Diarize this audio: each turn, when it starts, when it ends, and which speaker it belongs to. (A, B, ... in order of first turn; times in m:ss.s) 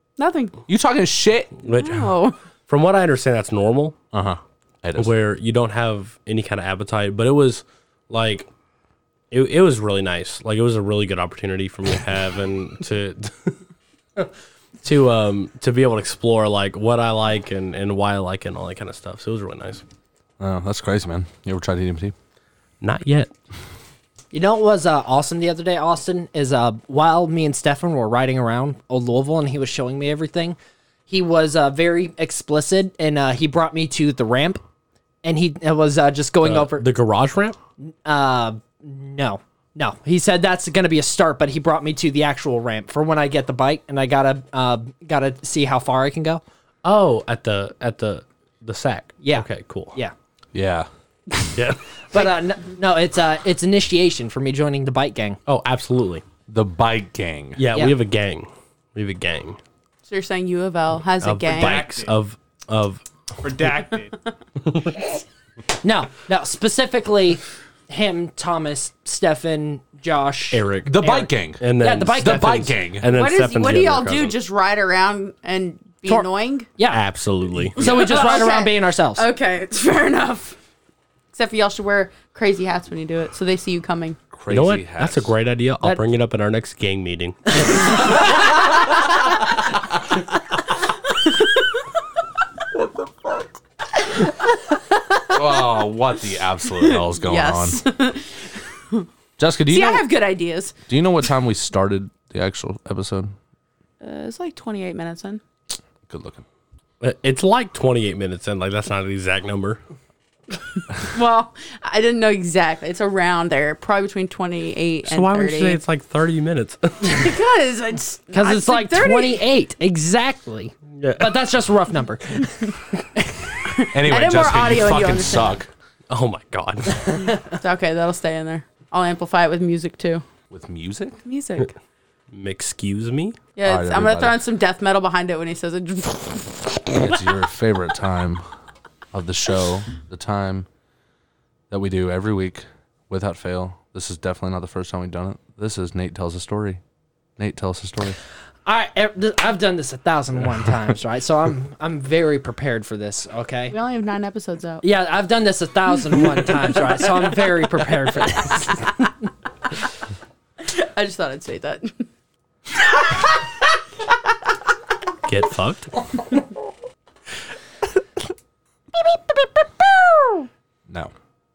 0:00.2-0:00.6 A
0:00.7-0:01.5 B
0:01.6-0:02.1 C
0:01.7-0:02.4 A
0:02.7-0:04.0 C
0:04.1-0:05.1 B
0:05.0-0:08.5 C
0:09.3-0:13.6 C
0:14.8-0:19.8 C
0:20.4-0:22.1 B
0:22.8-0:23.3 C
0:24.3-0:30.6 D
0:31.1-0:34.6 D
0:35.2-0:36.9 D
0:36.4-0:37.6 C
0:38.0-0:46.4 D
0:46.8-0:50.0 C
0:49.2-0:50.1 D
0:50.5-0:50.9 B
0:51.5-0:51.8 C
0:52.1-0:55.4 D
0:55.4-0:56.2 C
0:56.5-0:57.6 B
0:57.6-0:59.6 C
1:00.1-1:01.9 A
1:01.2-1:03.0 C
1:01.6-1:02.1 B
1:03.4-1:04.1 B
1:04.6-1:05.1 C
1:05.8-1:12.6 D
1:10.5-1:11.0 C
1:10.8-1:11.6 B
1:11.6-1:14.3 C
1:12.2-1:13.1 B
1:13.1-1:16.7 A
1:16.9-1:17.9 C
1:17.8-1:19.2 D
1:17.8-1:20.6 A
1:21.3-1:24.2 A
1:24.3-1:25.3 B
1:24.5-1:27.6 C
1:35.3-1:37.8 B
1:36.8-1:39.1 A
1:39.4-1:40.0 B
1:39.7-1:40.7 A
1:40.9-1:43.3 B
1:44.0-1:45.4 A
1:46.1-1:46.4 B
1:47.0-1:49.8 C
1:51.0-1:55.8 A
1:55.1-1:57.3 C
1:57.0-1:59.4 A
1:58.3-2:03.2 D
2:00.9-2:01.3 C
2:03.6-2:05.6 A
2:03.9-2:05.7 B
2:06.1-2:07.3 C
2:07.4-2:10.2 A
2:10.5-2:11.2 B
2:11.2-2:11.7 A
2:12.3-2:13.4 C
2:13.6-2:17.0 A
2:13.6-2:14.4 B
2:17.0-2:18.4 B
2:19.1-2:20.6 B
2:21.7-2:26.8 B
2:27.4-2:28.2 B
2:28.6-2:33.7 D
2:33.7-2:34.8 A
2:34.8-2:39.1 D
2:40.6-2:42.0 A
2:42.8-2:43.3 A
2:45.2-2:46.0 C
2:50.9-2:51.1 B